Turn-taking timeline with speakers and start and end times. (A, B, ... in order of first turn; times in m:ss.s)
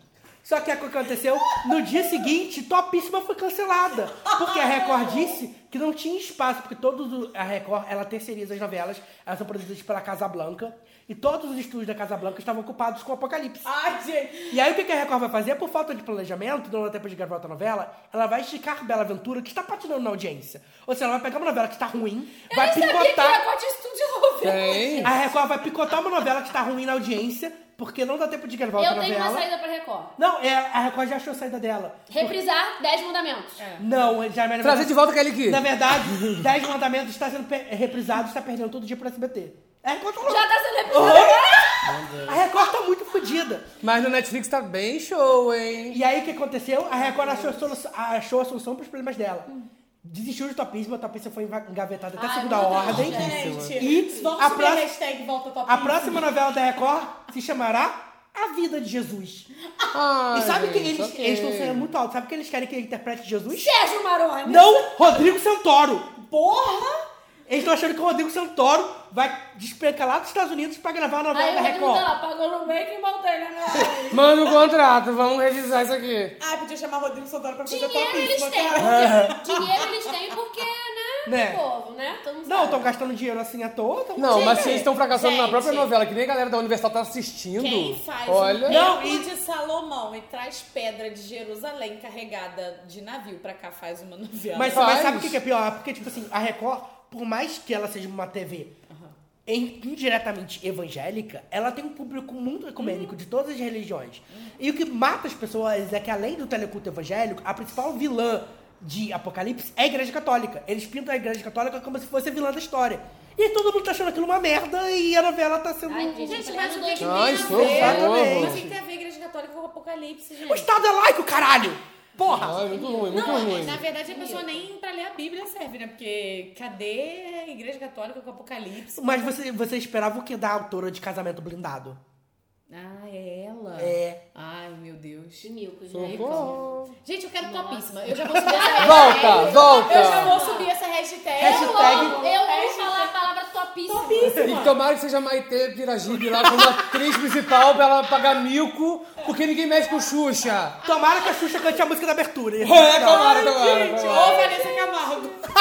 0:00.4-0:13.8 A
0:04.4-0:05.2 B
0:13.6-0:14.4 B
0:14.5-0:23.4 A
0:22.5-0:25.2 C
0:24.4-0:25.1 D
0:25.0-0:29.5 A
0:28.8-0:30.1 C
0:30.2-0:32.4 A
0:32.1-0:33.6 C
0:33.6-0:33.9 B
0:33.8-0:43.7 A
0:34.6-0:36.4 D
0:40.2-0:41.9 C
0:41.9-0:42.4 D
0:43.8-0:46.0 D
0:45.9-0:49.5 A
0:50.0-0:55.0 A
0:52.2-0:54.3 C
0:52.9-0:55.0 B
0:53.0-0:53.8 D
0:55.5-0:56.2 B
0:55.6-0:59.5 A
0:59.9-1:01.9 D
1:00.3-1:03.7 A
1:03.6-1:05.2 C
1:04.4-1:06.2 A
1:07.5-1:12.1 A
1:11.3-1:14.5 C
1:13.8-1:16.4 D
1:16.4-1:18.7 B
1:17.7-1:23.0 C
1:18.3-1:19.3 A
1:18.8-1:19.6 D
1:21.2-1:21.6 A
1:22.5-1:24.9 A
1:24.2-1:28.8 D
1:24.3-1:25.8 B
1:25.1-1:25.8 C
1:27.6-1:35.0 B
1:28.6-1:29.3 A
1:34.5-1:38.8 A
1:34.7-1:35.4 D
1:39.5-1:56.4 A
1:42.8-1:43.1 B
1:55.9-1:57.9 C
1:56.3-2:00.7 B
1:57.0-1:58.7 D
1:57.4-1:58.7 A
2:00.4-2:02.7 A
2:02.3-2:03.8 D
2:02.7-2:04.6 C
2:03.1-2:09.3 B
2:09.0-2:12.0 A
2:12.7-2:15.5 B
2:13.8-2:14.2 A
2:15.4-2:16.7 C
2:15.9-2:17.0 D
2:17.0-2:23.1 B
2:17.4-2:20.7 C
2:18.8-2:20.4 D
2:21.4-2:22.3 A
2:21.4-2:24.6 C
2:23.9-2:24.7 B
2:24.2-2:24.6 A
2:24.4-2:30.8 D
2:30.8-2:33.5 A
2:32.6-2:34.6 D
2:33.1-2:35.0 C
2:33.4-2:35.3 B